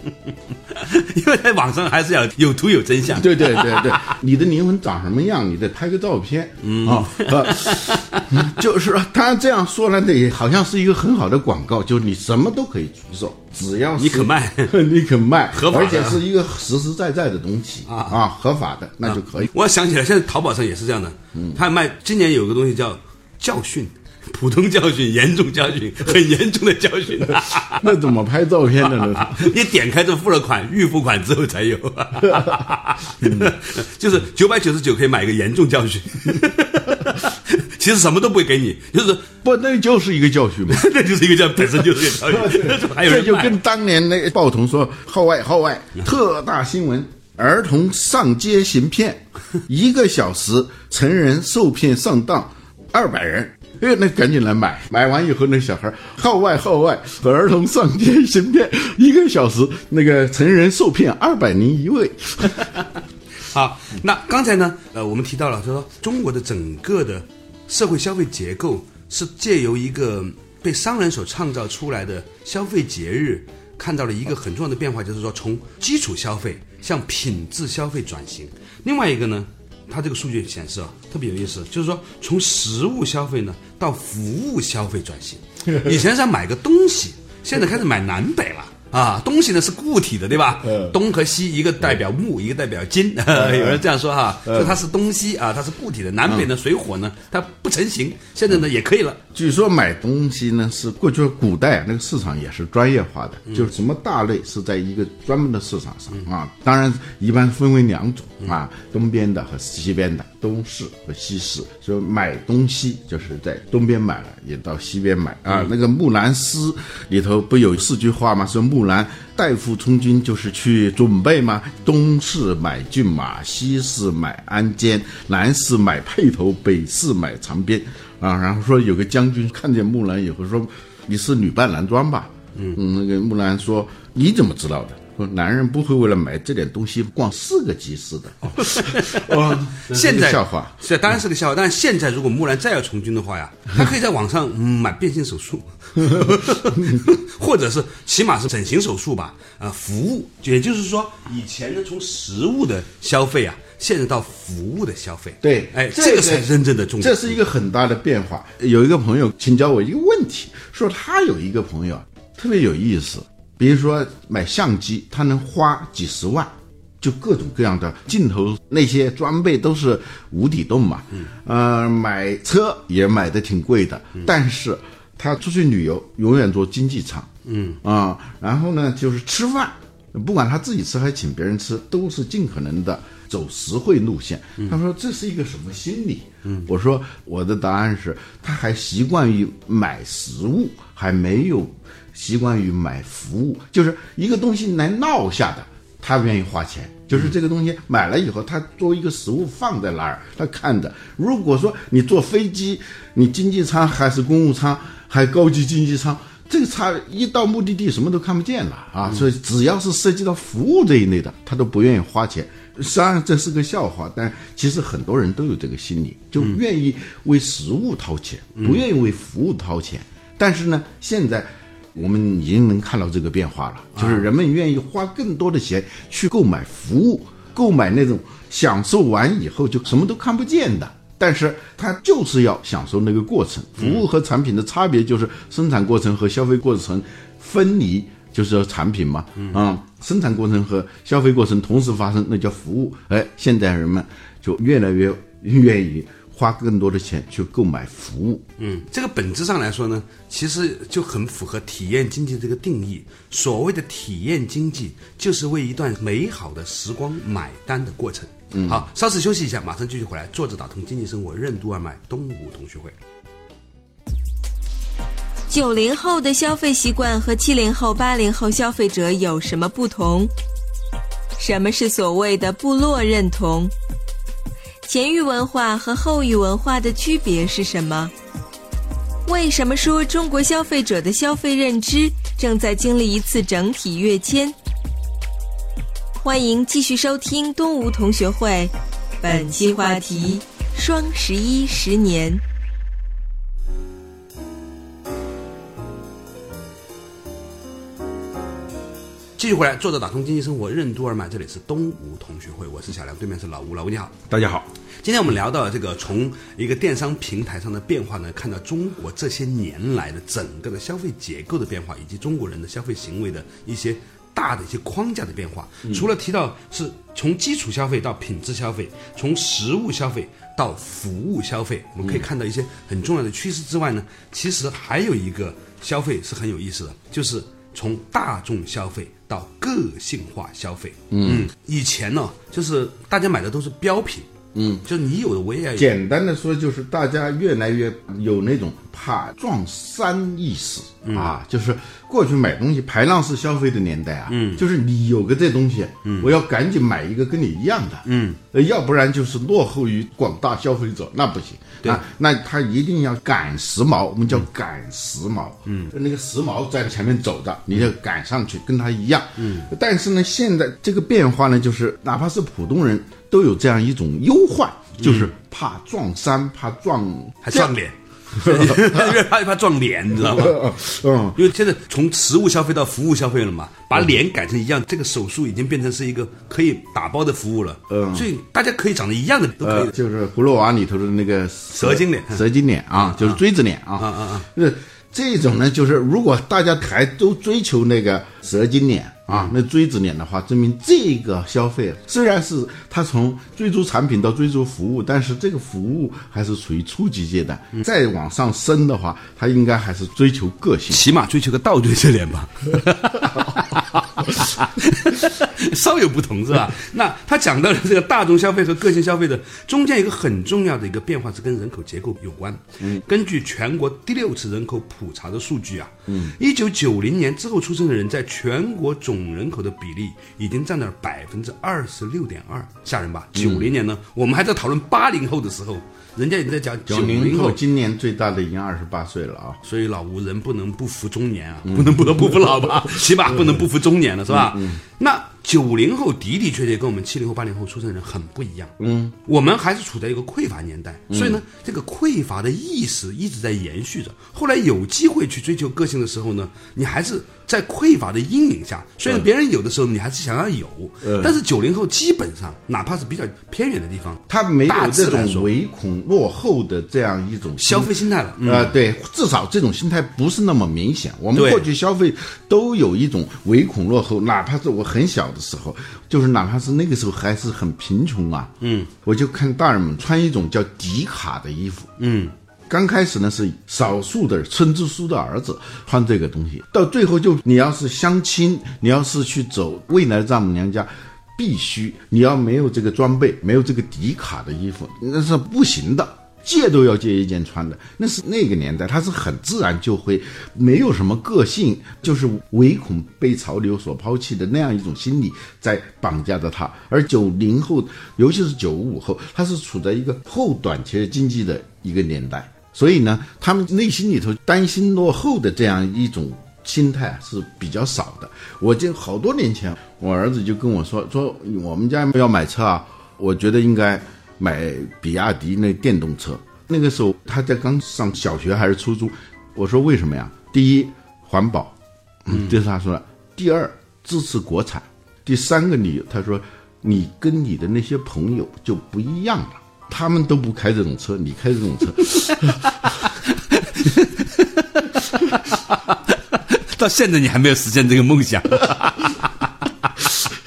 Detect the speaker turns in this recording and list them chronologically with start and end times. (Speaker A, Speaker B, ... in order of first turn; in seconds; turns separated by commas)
Speaker A: 0.7-4.2, Speaker B: 3.1-19.5, Speaker A: 6.6-8.4, Speaker A: 14.0-14.7, Speaker A: 15.5-16.2, Speaker A: 17.9-18.2, Speaker A: 19.0-28.0, Speaker B: 21.3-21.6, Speaker B: 27.7-29.6, Speaker A: 28.8-39.2, Speaker B: 33.2-33.6, Speaker B: 39.4-40.8, Speaker A: 40.7-43.6, Speaker B: 41.6-62.8, Speaker A: 63.5-99.2, Speaker B: 90.7-90.9, Speaker B: 93.3-93.8, Speaker B: 94.4-94.8, Speaker B: 99.3-140.8, Speaker A: 138.6-157.4, Speaker B: 146.0-147.1, Speaker B: 155.4-177.3, Speaker A: 177.4-177.8, Speaker B: 177.8-248.4, Speaker A: 218.6-218.8, Speaker A: 223.9-224.2, Speaker A: 233.8-234.0, Speaker A: 248.6-262.9, Speaker B: 258.5-258.8, Speaker C: 265.5-270.3, Speaker C: 271.4-273.7, Speaker C: 274.8-278.1, Speaker C: 279.2-284.6, Speaker C: 286.2-292.4, Speaker A: 299.4-304.1, Speaker B: 304.3-304.7, Speaker A: 305.0-334.3, Speaker B: 331.1-331.5, Speaker B: 334.5-334.8, Speaker A: 334.8-335.9, Speaker B: 335.8-367.7, Speaker A: 341.0-341.3, Speaker A: 344.3-344.6, Speaker A: 346.0-346.3, Speaker A: 348.0-348.4, Speaker A: 355.7-355.9, Speaker A: 359.4-359.7, Speaker A: 365.0-365.3, Speaker A: 367.4-370.8, Speaker B: 368.4-369.2, Speaker B: 370.1-371.4, Speaker A: 371.3-379.9, Speaker B: 377.9-378.3, Speaker B: 379.6-401.0, Speaker A: 381.8-383.4, Speaker A: 384.0-384.4, Speaker A: 400.9-427.6, Speaker B: 416.1-416.3, Speaker B: 423.3-423.7, Speaker B: 426.9-429.6, Speaker A: 429.6-438.7, Speaker B: 431.6-433.5, Speaker B: 434.3-434.8, Speaker B: 438.8-439.1, Speaker A: 439.2-455.5, Speaker B: 441.1-441.4, Speaker B: 451.0-451.4, Speaker B: 454.3-468.5, Speaker A: 457.6-458.8, Speaker A: 461.3-461.6, Speaker A: 468.6-468.9, Speaker B: 469.0-471.9, Speaker A: 472.0-472.3, Speaker B: 472.7-532.6, Speaker A: 533.0-539.5